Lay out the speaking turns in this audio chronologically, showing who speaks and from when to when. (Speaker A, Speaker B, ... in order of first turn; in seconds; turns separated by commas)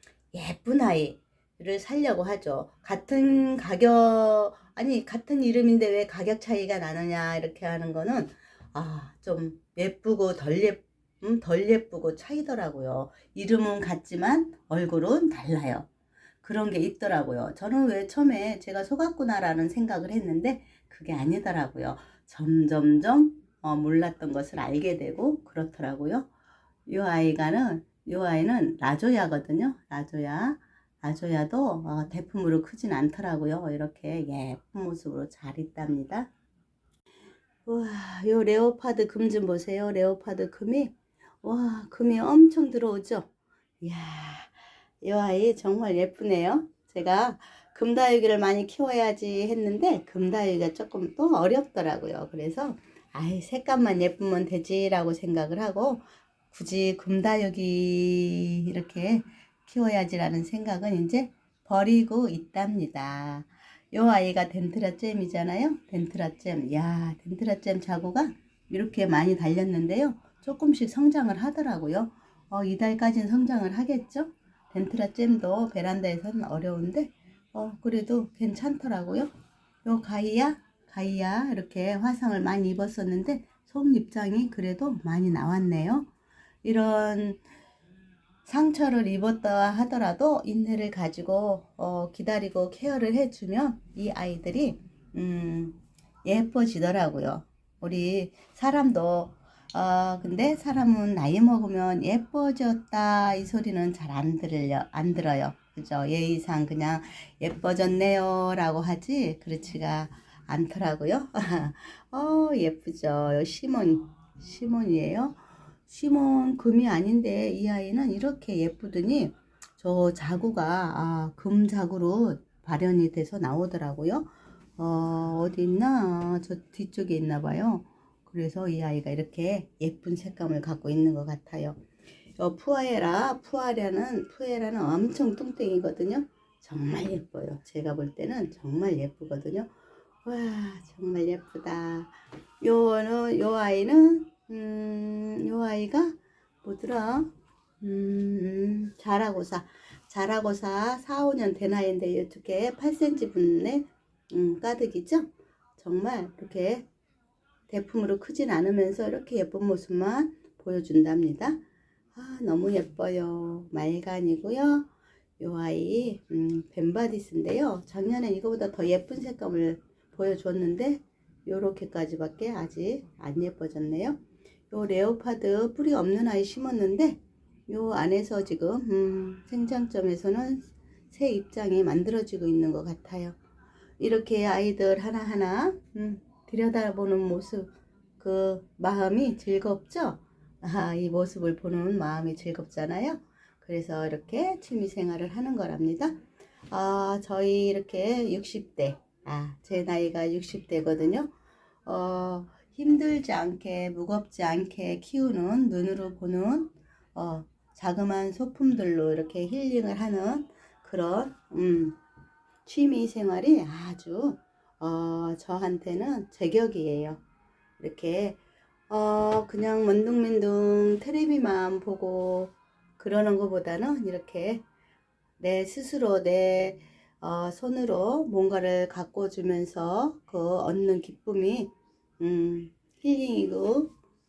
Speaker A: 0.3-15.9, Speaker A: 16.4-26.3, Speaker A: 26.9-36.3, Speaker A: 37.6-43.3, Speaker A: 43.8-79.3, Speaker A: 79.8-86.1, Speaker A: 86.6-87.4, Speaker A: 88.4-131.8, Speaker A: 132.4-139.7, Speaker A: 140.2-156.8, Speaker A: 157.7-161.6, Speaker A: 162.1-164.9, Speaker A: 165.4-174.2, Speaker A: 174.7-183.4, Speaker A: 184.0-196.2, Speaker A: 196.7-201.3, Speaker A: 201.8-212.0, Speaker A: 212.6-217.2, Speaker A: 217.8-218.4, Speaker A: 218.9-224.6, Speaker A: 225.4-233.9